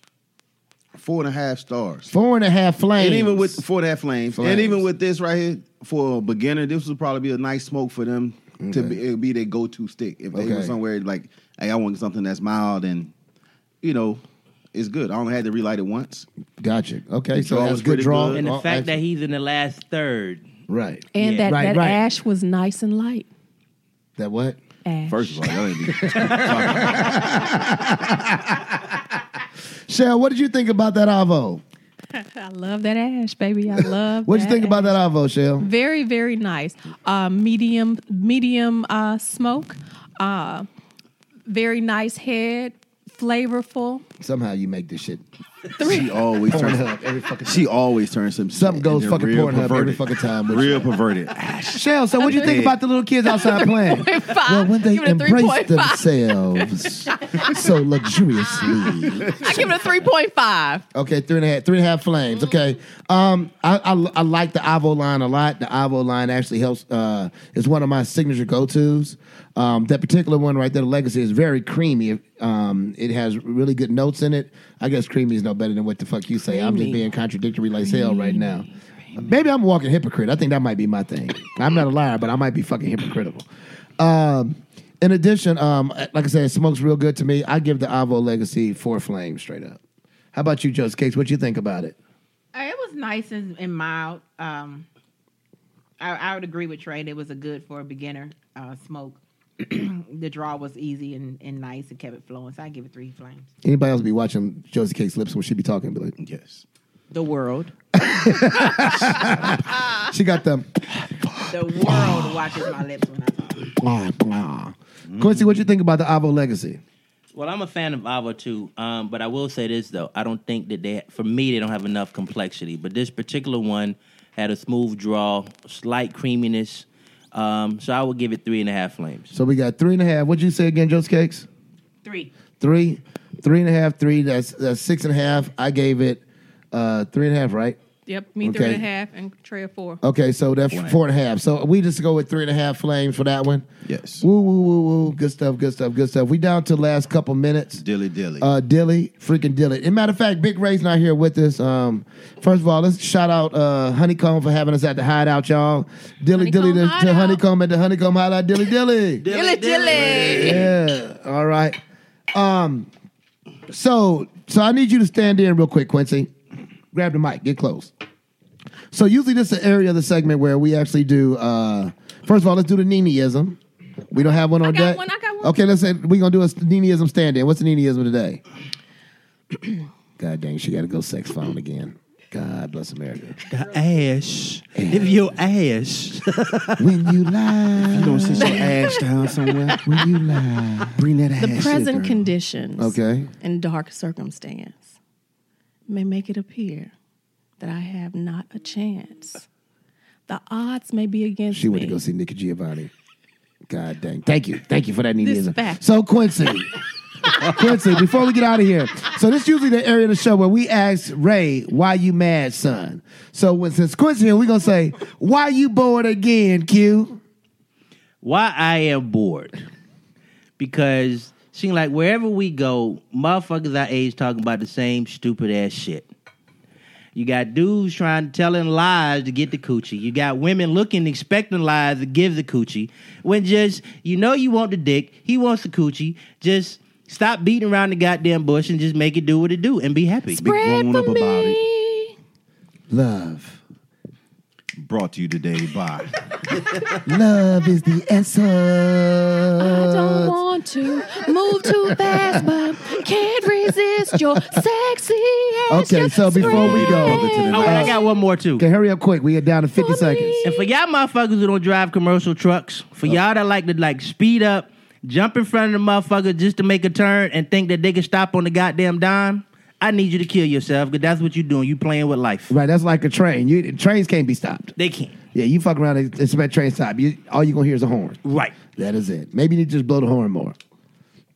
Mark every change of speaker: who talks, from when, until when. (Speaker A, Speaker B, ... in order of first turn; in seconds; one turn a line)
Speaker A: 0.9-2.1
Speaker B: 2.1-3.6
Speaker A: 3.0-13.1
Speaker B: 4.3-4.9
Speaker B: 8.6-9.0
Speaker B: 10.3-10.8
Speaker A: 13.8-14.2
Speaker A: 14.7-16.2
Speaker B: 16.6-19.0
Speaker A: 17.3-18.4
Speaker C: 18.3-20.4
Speaker B: 20.7-22.0
Speaker D: 21.1-23.3
Speaker C: 21.2-21.5
Speaker B: 24.2-24.6
Speaker D: 24.8-25.7
Speaker A: 25.1-27.7
Speaker B: 25.9-28.8
Speaker B: 29.9-31.6
Speaker D: 32.1-35.0
Speaker B: 33.8-35.7
Speaker D: 35.6-40.6
Speaker D: 41.5-44.0
Speaker B: 44.2-45.2
Speaker D: 45.8-46.2
Speaker A: 45.8-46.8
Speaker B: 46.5-47.7
Speaker A: 47.4-51.8
Speaker B: 48.5-50.9
Speaker B: 51.7-59.7
Speaker D: 52.2-52.7
Speaker A: 52.4-52.8
Speaker D: 53.2-60.8
Speaker A: 59.1-59.7
Speaker B: 60.9-83.5
Speaker D: 76.5-77.0
Speaker D: 77.8-78.7
Speaker B: 84.0-89.8
Speaker B: 90.3-92.0
Speaker E: 92.5-94.9
Speaker E: 96.0-103.5
Speaker B: 103.6-106.1
Speaker A: 106.2-106.6
Speaker E: 107.1-107.7
Speaker B: 107.9-112.4
Speaker E: 111.5-113.7
Speaker B: 113.8-116.8
Speaker A: 115.1-115.5
Speaker C: 117.3-129.3
Speaker B: 129.3-131.5
Speaker E: 132.0-132.3
Speaker B: 132.6-136.2
Speaker B: 136.7-137.8
Speaker D: 138.1-140.0
Speaker B: 138.4-138.8
Speaker B: 140.0-143.7
Speaker A: 140.7-140.9
Speaker A: 143.8-144.2
Speaker B: 144.2-147.8
Speaker A: 147.8-148.5
Speaker B: 148.4-159.2
Speaker D: 156.4-157.4
Speaker C: 159.2-160.7
Speaker D: 159.3-160.6
Speaker E: 159.7-160.5
Speaker B: 160.1-161.8
Speaker B: 162.3-162.9
Speaker B: 163.7-166.3
Speaker B: 166.9-167.9
Speaker B: 168.9-173.6
Speaker B: 174.1-178.4
Speaker D: 174.6-175.6
Speaker B: 180.2-183.4
Speaker C: 183.5-187.3
Speaker B: 184.7-185.1
Speaker B: 186.8-188.7
Speaker A: 187.9-189.8
Speaker D: 188.3-190.0
Speaker B: 189.8-191.0
Speaker A: 190.9-192.3
Speaker D: 191.4-194.9
Speaker B: 192.8-193.3
Speaker D: 195.9-196.9
Speaker D: 197.6-199.4
Speaker D: 200.3-202.0
Speaker B: 201.5-202.9
Speaker B: 203.7-206.7
Speaker D: 205.2-205.8
Speaker B: 207.3-217.2
Speaker C: 218.2-219.6
Speaker C: 220.6-226.1
Speaker C: 227.1-240.5
Speaker D: 240.3-242.1
Speaker A: 240.4-241.6
Speaker B: 242.9-243.6
Speaker A: 244.8-246.1
Speaker B: 247.0-250.3
Speaker D: 249.6-258.1
Speaker B: 251.5-252.4
Speaker B: 254.1-254.6
Speaker B: 255.7-258.0
Speaker A: 256.4-257.9
Speaker C: 257.5-258.6
Speaker B: 258.6-260.4
Speaker D: 259.8-260.7
Speaker C: 260.4-272.5
Speaker B: 272.5-274.7
Speaker C: 274.8-275.1
Speaker B: 275.3-278.2
Speaker C: 278.2-278.6
Speaker B: 278.7-280.6